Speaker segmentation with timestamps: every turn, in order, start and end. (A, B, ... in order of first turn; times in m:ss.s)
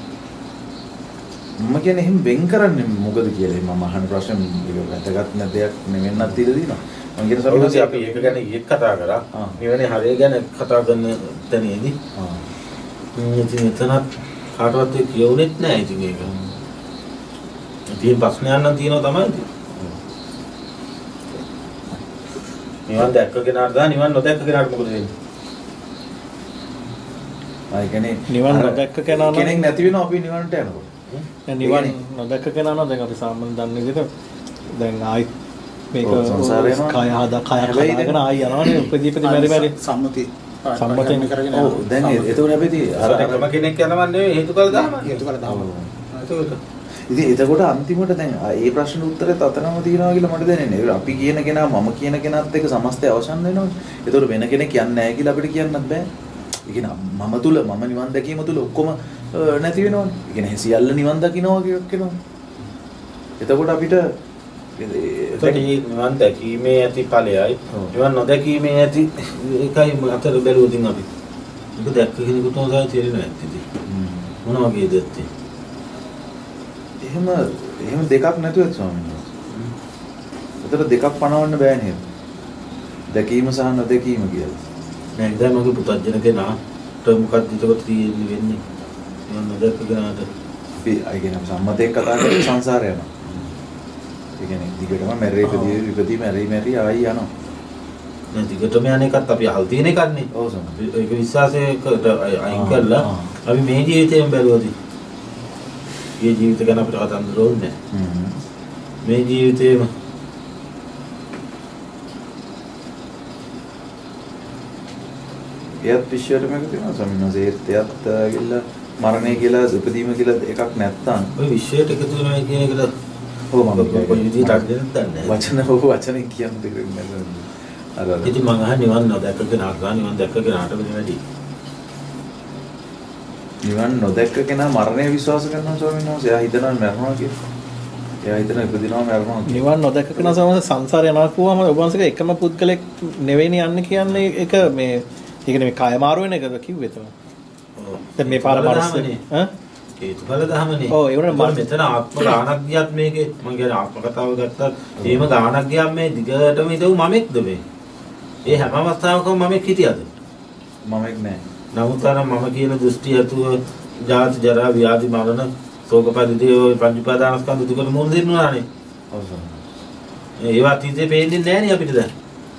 0:01.6-0:08.4 A
0:07.5-0:12.0 B
0:09.3-0:09.6 A
0:12.2-0:12.5 A
0:13.2-0:16.3 B
0:16.2-0:16.6 A
0:17.9-0:19.5 B
0:19.7-0:20.0 A
0:22.9-0:25.1 B
0:27.7-0:30.9 A
0:28.3-0:29.9 C
0:31.5-0:34.1 C
0:31.6-0:32.0 A
0:34.7-0:35.3 C
0:35.9-0:39.7 C
0:36.0-0:37.0 A
0:37.6-0:38.3 A
0:39.2-0:42.6 D
0:40.8-0:41.3 C
0:41.5-0:43.5 A
0:43.0-0:45.2 B
0:44.7-0:46.3 D
0:45.4-0:45.9 A
0:46.2-0:46.6 B
0:47.1-0:56.1 A
0:56.7-1:02.2 A
1:03.4-1:04.1 A
1:04.8-1:05.6 A
1:05.4-1:11.1 B
1:07.7-1:08.0 A
1:11.8-1:13.6 B
1:13.8-1:14.4 A
1:14.4-1:15.3 B
1:17.0-1:19.4 A
1:20.6-1:22.1 A
1:23.1-1:24.6 A
1:25.2-1:28.6 B
1:29.3-1:30.3 B
1:30.8-1:33.4 A
1:34.4-1:37.3 A
1:35.4-1:35.8 B
1:38.3-1:44.7 B
1:40.3-1:40.8 A
1:42.5-1:43.4 A
1:46.2-1:47.8 B
1:47.9-1:48.4 A
1:49.0-1:49.9 B
1:55.8-2:01.3 A
1:59.1-1:59.4 B
2:01.4-2:02.9 B
2:03.5-2:04.7 A
2:03.8-2:05.4 B
2:05.2-2:08.3 A
2:08.2-2:11.2 B
2:13.6-2:17.3 A
2:18.2-2:20.4 A
2:19.5-2:27.1 C
2:27.8-2:29.2 B
2:28.2-2:29.5 C
2:30.0-2:37.6 B
2:30.9-2:31.8 C
2:35.0-2:35.3 A
2:38.4-2:38.7 A
2:38.4-2:40.1 B
2:40.8-2:41.4 A
2:41.7-2:48.7 B
2:49.1-2:49.6 A
2:50.4-2:52.1 B